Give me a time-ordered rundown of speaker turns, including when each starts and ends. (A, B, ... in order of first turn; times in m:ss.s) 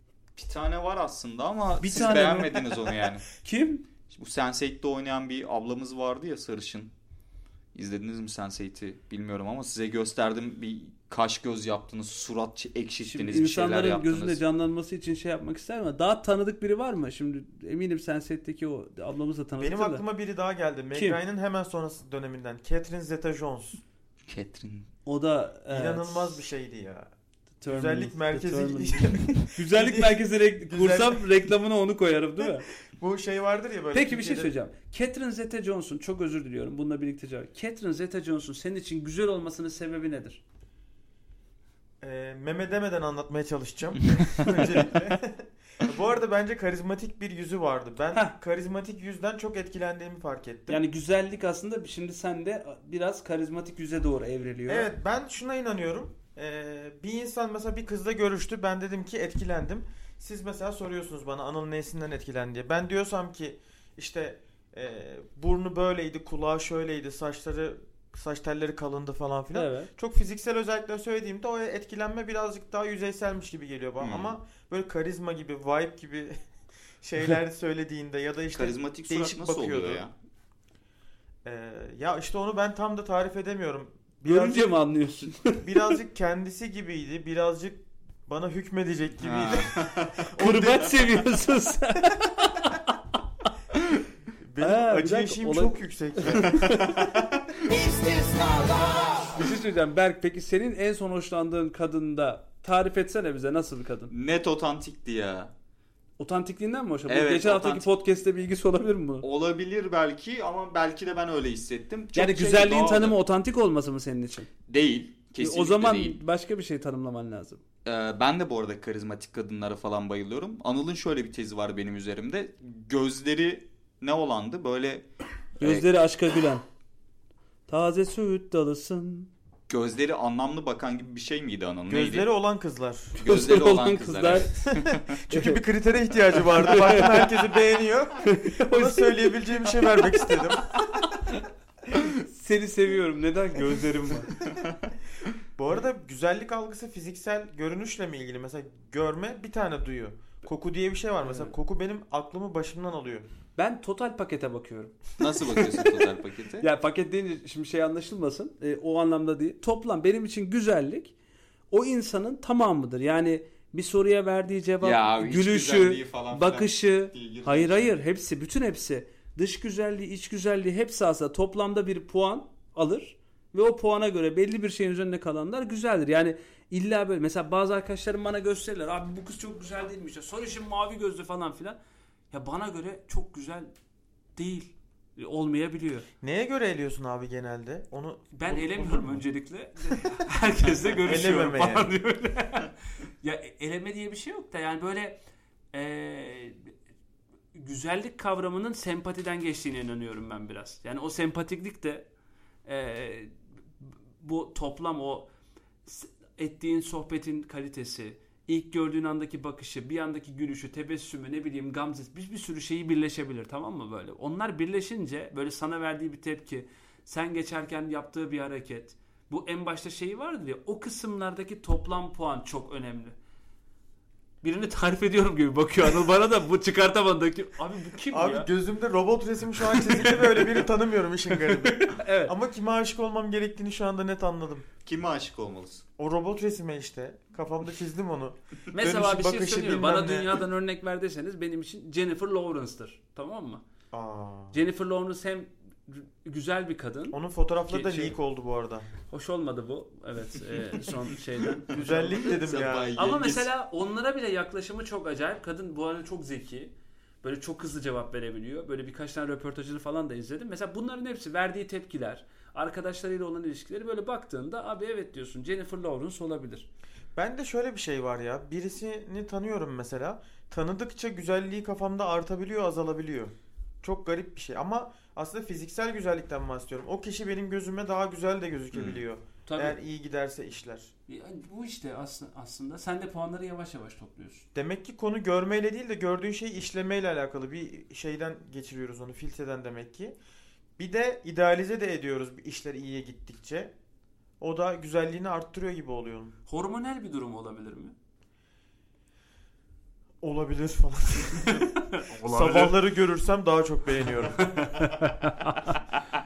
0:00.4-0:03.3 A
0:01.8-0:02.8 B
0:03.4-0:03.9 B
0:04.1-0:06.9 A
0:07.8-0:14.4 A
0:13.0-0:20.0 B
0:19.6-0:23.8 C
0:20.9-0:21.2 B
0:24.3-0:24.9 A
0:25.0-0:26.4 B
0:25.7-0:27.1 C
0:27.6-0:32.7 B
0:27.7-0:31.3 C
0:32.9-0:34.5 C
0:33.9-0:40.4 B
0:42.0-0:50.8 C
0:50.7-0:54.9 B
0:54.7-1:16.4 C
1:09.5-1:09.9 B
1:14.0-1:14.3 A
1:17.0-1:20.0 C
1:18.5-1:20.1 A
1:21.4-1:24.7 C
1:24.2-1:25.7 B
1:25.6-1:30.9 C
1:29.2-1:30.2 A
1:30.4-1:33.0 B
1:34.4-1:37.0 C
1:34.6-1:37.1 B
1:36.7-1:37.8 A
1:37.7-1:44.1 B
1:44.1-1:45.5 A
1:46.2-1:49.2 B
1:47.1-1:47.9 A
1:49.2-1:53.2 A
1:52.2-1:54.5 B
1:54.7-1:56.2 A
1:55.4-1:57.6 B
1:57.8-2:05.1 A
2:05.6-2:05.9 A
2:05.6-2:06.6 B
2:07.7-2:09.3 B
2:09.7-2:12.3 A
2:11.9-2:13.2 C
2:13.2-2:15.2 A
2:13.2-2:14.7 B
2:14.7-2:20.8 C
2:15.3-2:15.6 B
2:16.6-2:17.2 B
2:18.2-2:20.3 B
2:21.0-2:21.5 B
2:22.0-2:24.4 B
2:24.5-2:24.7 A
2:25.6-2:33.3 C
2:31.2-2:31.5 B
2:33.6-2:35.9 B
2:35.2-2:36.7 A
2:36.6-2:41.2 B
2:41.7-3:01.8 B
2:44.8-2:47.9 A
3:02.3-3:03.7 B
3:04.4-3:06.1 B
3:06.2-3:09.2 C
3:08.3-3:15.2 B
3:11.0-3:11.9 C
3:15.7-3:16.7 B
3:17.5-3:22.1 B
3:22.7-3:23.3 B
3:24.2-3:25.3 B
3:25.8-3:43.2 B
3:44.4-3:48.5 B
3:48.1-3:54.7 C
3:49.8-3:50.3 B
3:51.5-3:52.3 B
3:54.8-3:55.8 A
3:56.0-4:00.4 C
3:58.7-4:03.6 B
4:03.9-4:04.6 C
4:04.5-4:08.2 B
4:07.1-4:08.9 C
4:09.1-4:12.4 B
4:11.7-4:13.0 C
4:12.3-4:13.5 A
4:13.0-4:26.7 B
4:27.2-4:40.9 C
4:38.7-4:39.0 A
4:39.5-4:39.8 B
4:41.1-4:44.5 B
4:44.6-4:50.2 C
4:50.8-4:53.7 C
4:54.4-4:56.4 C
4:56.5-4:58.0 B
5:00.2-5:01.7 C
5:01.5-5:02.8 B
5:02.3-5:04.6 C
5:04.4-5:05.8 B